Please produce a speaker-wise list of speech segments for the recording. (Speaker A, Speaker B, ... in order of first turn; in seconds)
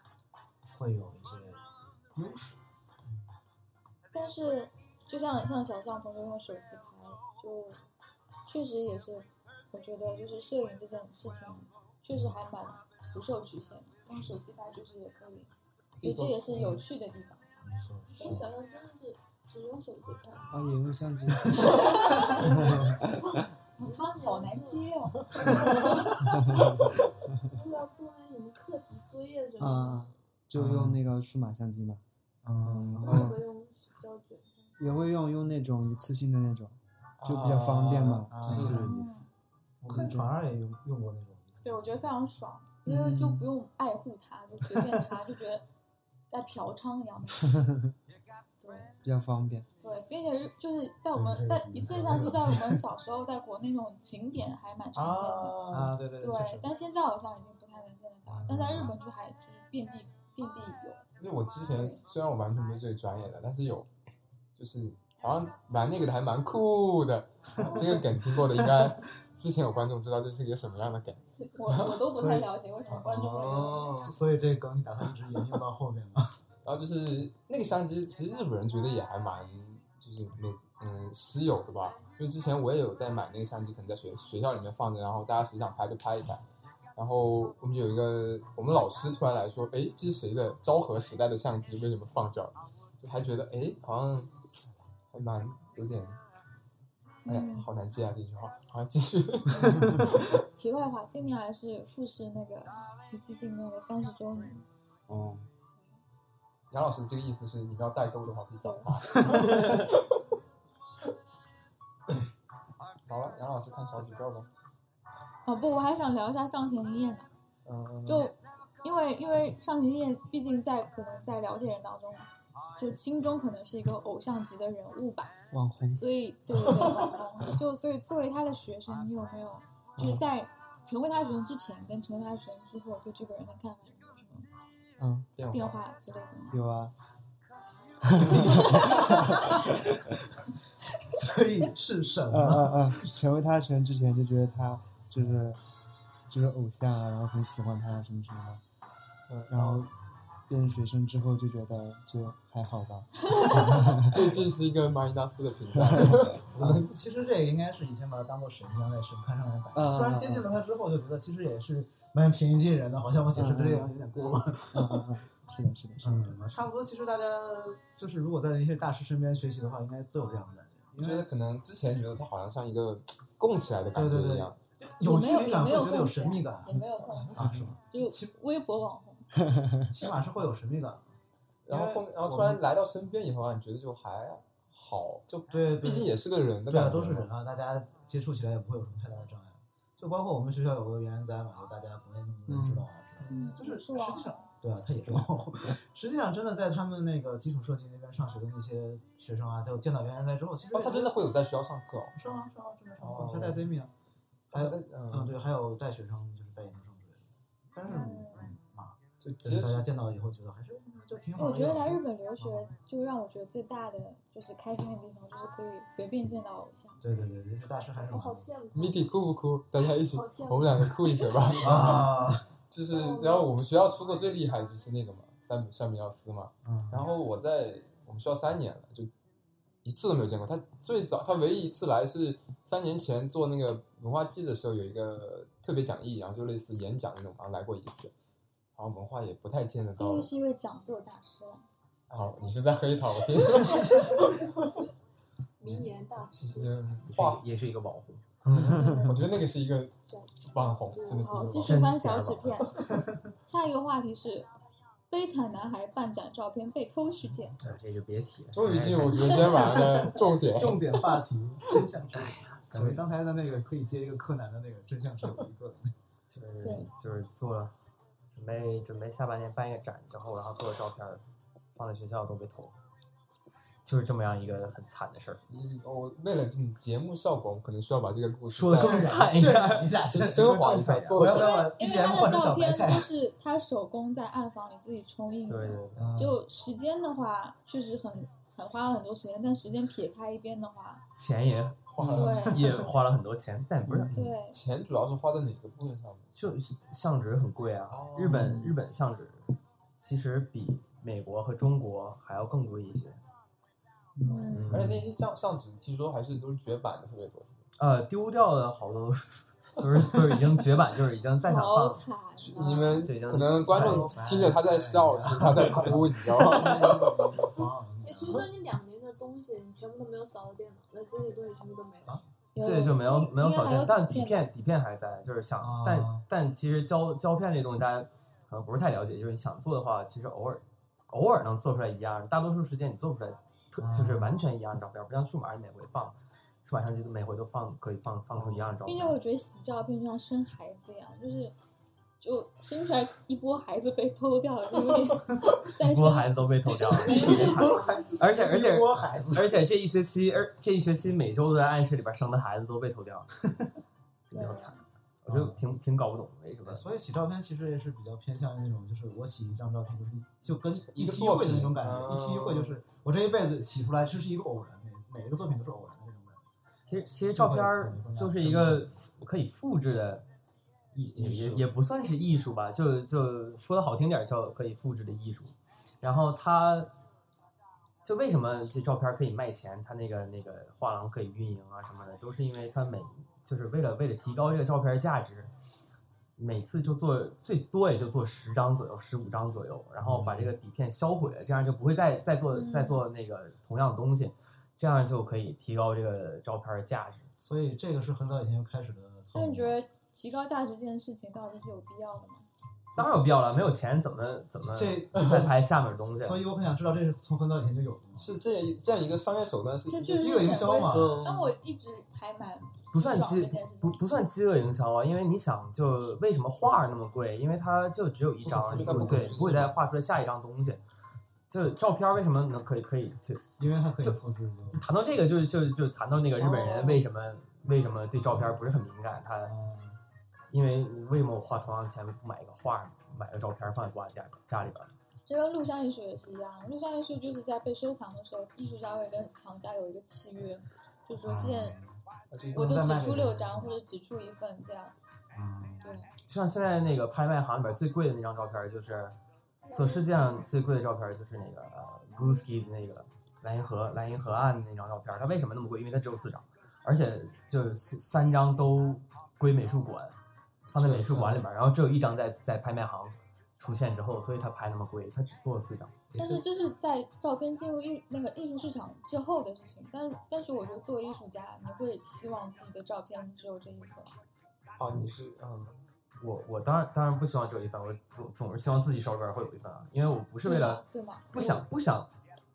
Speaker A: 0.7-3.1, 16.5-16.8, 17.6-18.5, 25.4-26.0, 30.5-31.0, 32.4-33.4, 38.3-38.9, 39.8-42.0, 51.1-52.8, 55.7-56.7, 58.3-59.0, 67.6-68.9, 72.1-76.4, 105.1-105.4, 109.3-109.6, 138.3-139.4, 141.1-143.1, 153.4-154.1, 156.5-165.2, 166.0-171.3, 173.9-178.3, 179.8-181.1, 181.7-182.6, 185.5-201.2, 202.1-203.9, 204.5-212.7, 217.0-218.5, 221.6-222.4, 226.6-227.1, 259.8-265.9, 278.6-283.1, 285.9-286.4, 292.0-292.4, 293.9-294.3, 313.6-318.5, 325.6-326.2, 333.8-334.4, 346.9-349.6, 355.3-355.6, 356.6-369.0, 390.0-390.5, 397.4-399.8, 402.9-403.3, 404.6-405.5, 406.0-408.4, 410.1-411.2, 418.6-419.4, 423.6-424.8, 429.4-430.0, 441.1-442.0, 442.5-443.8, 445.3-446.0, 466.1-466.4
Speaker B: 4.1-7.9, 8.4-15.5, 16.0-17.5, 18.2-18.4, 23.8-25.9, 38.8-39.3, 41.6-45.6, 46.3-47.6, 48.6-49.0, 49.8-55.6, 56.2-61.0, 61.7-62.0, 71.5-74.1, 97.2-97.7, 100.5-104.7, 108.6-109.0, 115.5-117.3, 118.0-125.4, 125.9-134.5, 135.5-136.6, 175.0-179.3, 193.3-194.4, 207.8-208.5, 211.4-217.0, 240.0-241.6, 251.2-252.8, 253.4-254.5, 255.1-257.6, 266.6-266.9, 281.3-291.0, 292.1-292.6, 294.1-294.6, 304.2-304.8, 311.4-313.1, 322.5-324.5, 338.8-341.5, 342.2-346.3, 346.9-347.3, 354.3-354.8, 392.5-393.0, 399.3-402.5, 409.9-414.0, 435.3-441.8, 442.5-444.9, 445.8-446.1, 466.2-474.1, 480.4-481.6
Speaker C: 16.0-16.8, 37.2-38.9, 54.9-55.9, 61.2-63.9, 64.5-72.0, 73.5-74.1, 76.6-86.4, 87.0-94.3, 95.1-96.2, 97.3-100.4, 106.7-110.2, 113.0-114.5, 117.7-118.3, 135.3-135.8, 149.3-149.9, 154.0-156.9, 171.0-174.6, 181.7-187.3, 200.7-202.1, 203.0-203.7, 204.5-205.4, 209.2-209.8, 218.7-222.2, 222.7-229.1, 229.8-238.1, 238.7-240.3, 242.1-244.7, 246.4-247.4, 248.5-252.1, 258.5-260.8, 275.5-279.2, 280.1-281.6, 291.9-292.9, 294.5-296.3, 297.9-298.6, 304.7-307.6, 312.4-317.1, 360.7-362.8, 371.2-371.6, 405.2-405.5, 408.2-411.5, 418.4-419.8, 442.3-442.9, 460.7-461.4, 474.8-475.8
Speaker D: 18.1-20.6, 22.0-22.3, 23.8-24.9, 25.5-26.1, 27.4-30.2, 33.0-34.8, 217.9-219.1, 220.0-222.1, 222.9-223.5, 245.6-246.8, 250.1-251.6, 318.0-322.2, 347.1-348.2, 449.6-450.4
Speaker E: 20.5-23.2, 26.2-26.9, 29.6-32.0, 32.6-33.4, 34.8-39.1, 39.8-40.3, 42.9-43.5, 49.0-49.7, 125.5-126.0, 126.6-127.0, 130.0-130.2, 135.0-135.3, 136.5-136.9, 138.0-139.9, 142.3-145.6, 146.3-148.6, 149.5-149.9, 150.5-154.3, 155.9-156.2, 159.7-160.5, 163.3-163.9, 164.7-166.3, 192.5-193.6, 248.6-249.0, 304.2-304.5
Speaker F: 247.1-248.5, 251.6-252.6, 257.6-259.9, 262.1-263.0, 266.3-267.7, 268.3-271.2, 271.7-272.7, 273.9-275.4, 278.5-281.4, 285.5-286.1, 291.1-294.1, 296.3-303.2, 304.5-305.0, 307.8-312.0, 312.7-314.2, 322.6-339.2, 345.6-353.3, 354.3-356.9, 366.9-370.2, 370.9-376.9, 378.0-385.5, 386.4-397.3, 402.9-406.4, 412.9-420.8, 421.5-423.4, 424.7-429.5, 430.5-434.9, 446.2-449.2, 449.7-460.1, 460.7-466.0, 476.2-482.1